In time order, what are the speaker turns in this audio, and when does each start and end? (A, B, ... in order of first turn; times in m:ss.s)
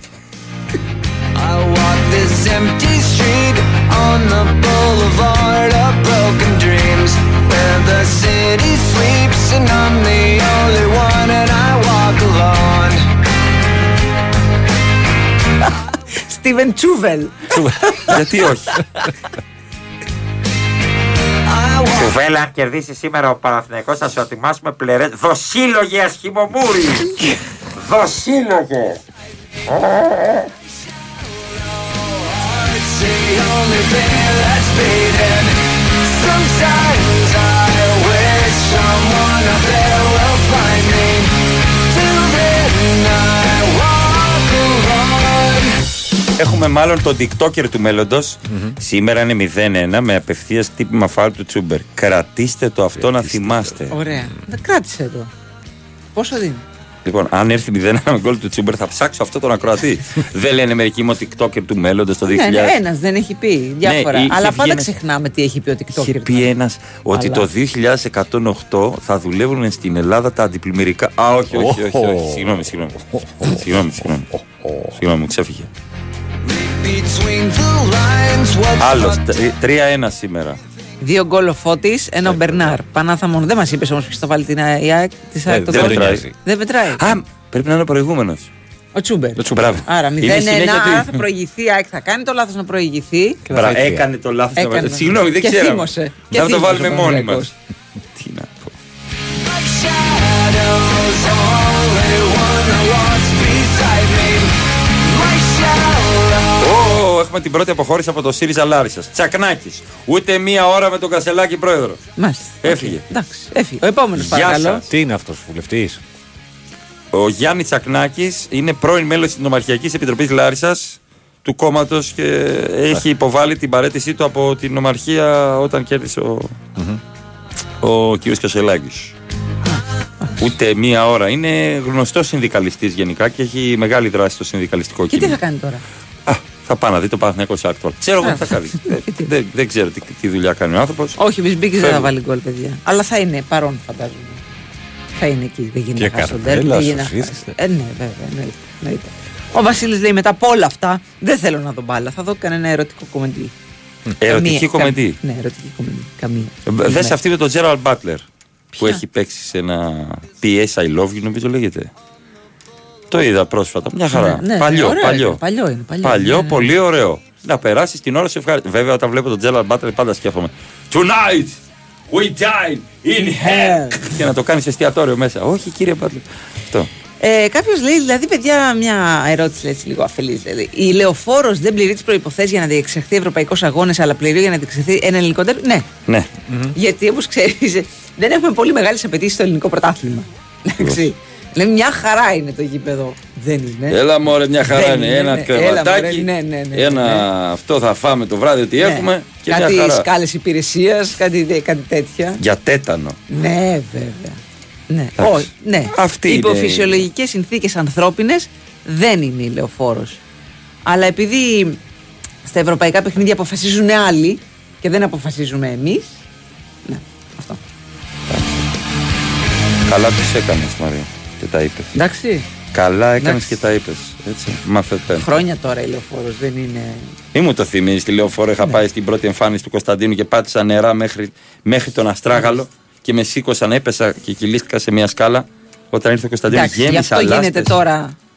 0:01.4-0:13.0 A
0:16.3-0:17.5 B
0:17.5-0:17.9 C
0:18.1-0:18.7 D
0:21.5-0:22.1 A
0:21.9-0:27.1 D
0:27.7-0:29.0 D
0:29.7-0:30.5 D
0:32.0-0:45.8 A
0:46.4-0:54.0 D
0:48.5-0:48.8 C
0:53.0-0:53.7 C
0:53.9-0:55.3 B
0:56.1-0:56.6 B
0:57.0-1:02.8 D
1:02.3-1:06.5 B
1:03.8-1:04.9 D
1:05.9-1:14.3 D
1:07.1-1:07.4 B
1:11.5-1:13.6 C
1:14.3-1:15.0 C
1:15.0-1:15.7 D
1:16.5-1:19.2 A
1:18.8-1:20.6 D
1:21.0-1:27.0 B
1:25.5-1:26.3 C
1:25.7-1:26.2 D
1:27.0-1:28.5 D
1:28.9-1:33.4 B
1:29.4-1:29.7 C
1:29.5-1:31.2 D
1:33.5-1:34.1 C
1:33.5-1:37.5 D
1:34.6-1:37.5 B
1:38.1-1:38.7 D
1:39.5-1:46.8 A
1:46.6-1:52.0 D
1:52.2-1:54.8 B
1:52.6-1:53.0 D
1:54.2-1:54.8 D
1:54.9-1:56.0 C
1:57.1-2:06.6 D
2:07.8-2:09.1 D
2:10.4-2:15.4 D
2:15.1-2:15.8 B
2:16.3-2:21.2 D
2:18.2-2:19.3 B
2:21.2-2:24.4 B
2:21.8-2:22.1 D
2:25.2-2:33.5 B
2:26.0-2:27.5 C
2:34.2-2:35.2 D
2:34.3-2:37.2 B
2:36.7-2:38.2 D
2:38.7-2:39.0 B
2:38.8-2:41.9 D
2:43.1-2:45.4 D
2:44.1-2:46.7 B
2:46.0-2:51.6 D
2:52.1-2:56.9 D
2:53.4-2:54.1 B
2:57.2-3:05.9 B
3:06.5-3:06.7 C
3:06.8-3:14.0 B
3:10.8-3:11.0 D
3:13.9-3:20.0 D
3:14.6-3:17.2 B
3:18.8-3:22.4 B
3:22.4-3:23.2 D
3:23.3-3:30.2 B
3:25.2-3:27.0 D
3:30.8-3:31.8 B
3:32.4-3:36.2 B
3:36.8-3:37.6 B
3:38.3-3:38.6 D
3:39.9-3:41.9 D
3:41.9-3:42.4 B
3:42.7-3:45.3 D
3:43.2-3:43.5 B
3:45.2-3:47.1 B
3:47.3-3:57.7 D
3:52.3-3:52.6 B
3:56.5-3:58.1 B